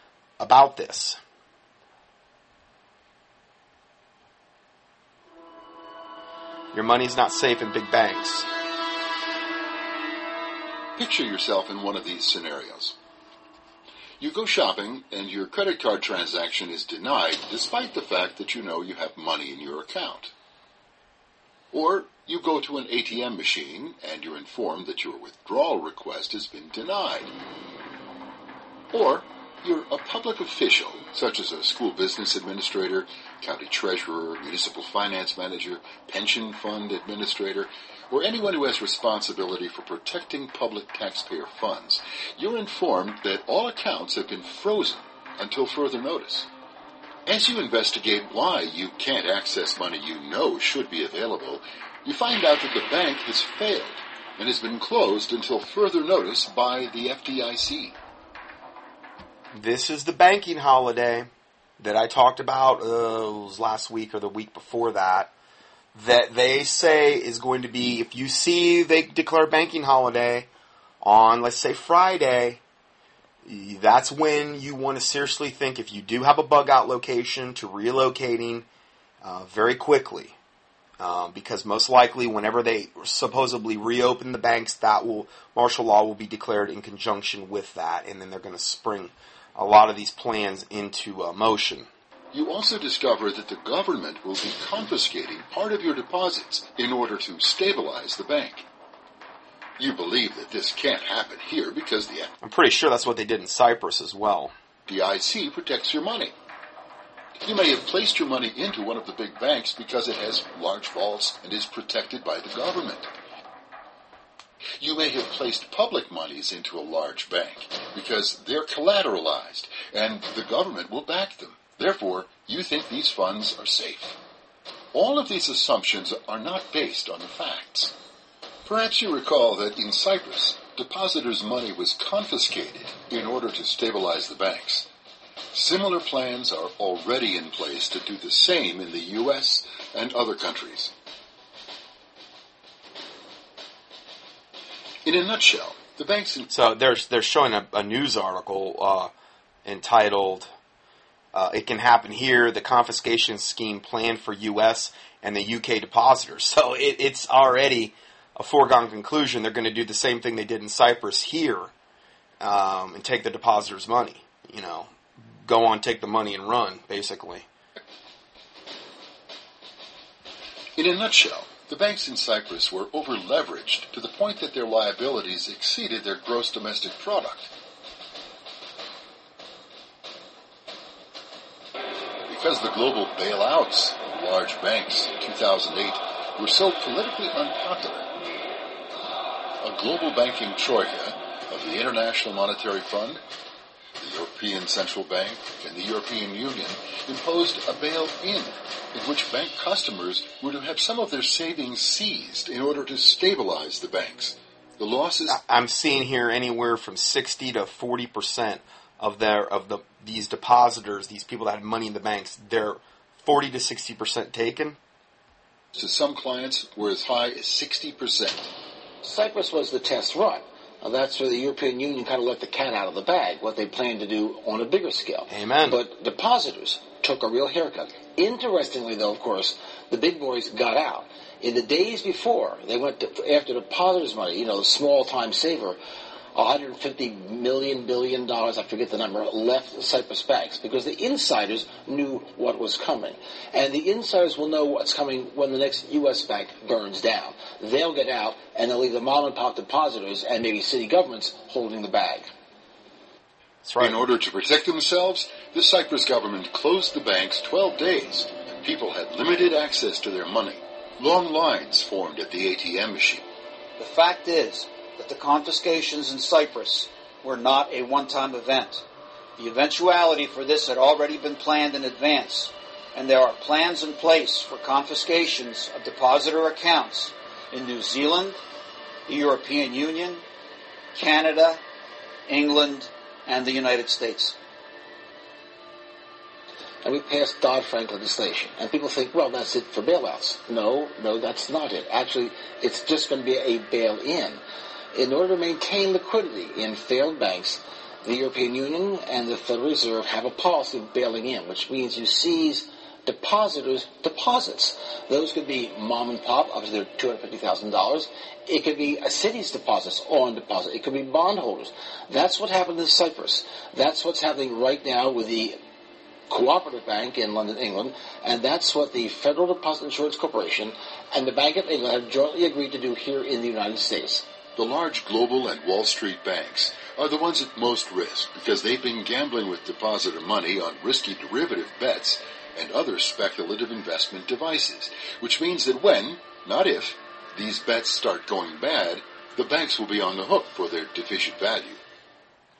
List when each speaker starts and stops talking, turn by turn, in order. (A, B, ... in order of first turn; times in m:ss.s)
0:00.4-0:01.2 A
0:06.7-0:08.5 A
0:11.0-0:12.9 B
0:14.2-0:20.3 B
0:21.7-0:27.3 B
0:28.9-0:46.5 B
0:47.2-0:58.0 B
0:59.5-1:01.3 A
1:01.8-1:05.3 A
1:05.9-1:10.5 A
1:11.0-1:12.6 A
1:13.4-1:18.6 A
1:19.2-1:20.3 A
1:21.0-1:31.9 A
1:32.3-1:38.6 B
1:39.8-1:42.3 B
1:42.4-1:44.5 A
1:44.9-1:46.3 B
1:47.4-1:53.1 B
1:54.8-2:04.2 B
2:04.9-2:07.9 B
2:08.6-2:14.9 B
2:15.5-2:20.9 B
2:25.0-2:26.5 B
2:26.5-2:29.1 A
2:29.6-2:30.5 A
2:31.3-2:41.7 A
2:42.4-2:44.9 A
2:45.4-2:47.5 A
2:50.8-2:57.5 B
3:02.2-3:08.1 B
3:09.6-3:13.2 B
3:14.0-3:25.4 B
3:25.3-3:34.8 A
3:35.7-3:38.5 B
3:39.0-3:55.8 C
3:45.3-3:45.8 A
3:56.3-4:12.3 C
4:13.6-4:14.0 A
4:13.8-4:23.2 B
4:23.8-4:28.8 D
4:29.4-4:38.4 D
4:39.1-4:40.2 D
4:40.9-4:41.6 D
4:42.3-4:44.4 D
4:46.8-4:54.4 C
4:54.9-5:15.6 C
5:16.3-5:24.2 C
5:24.6-5:41.8 B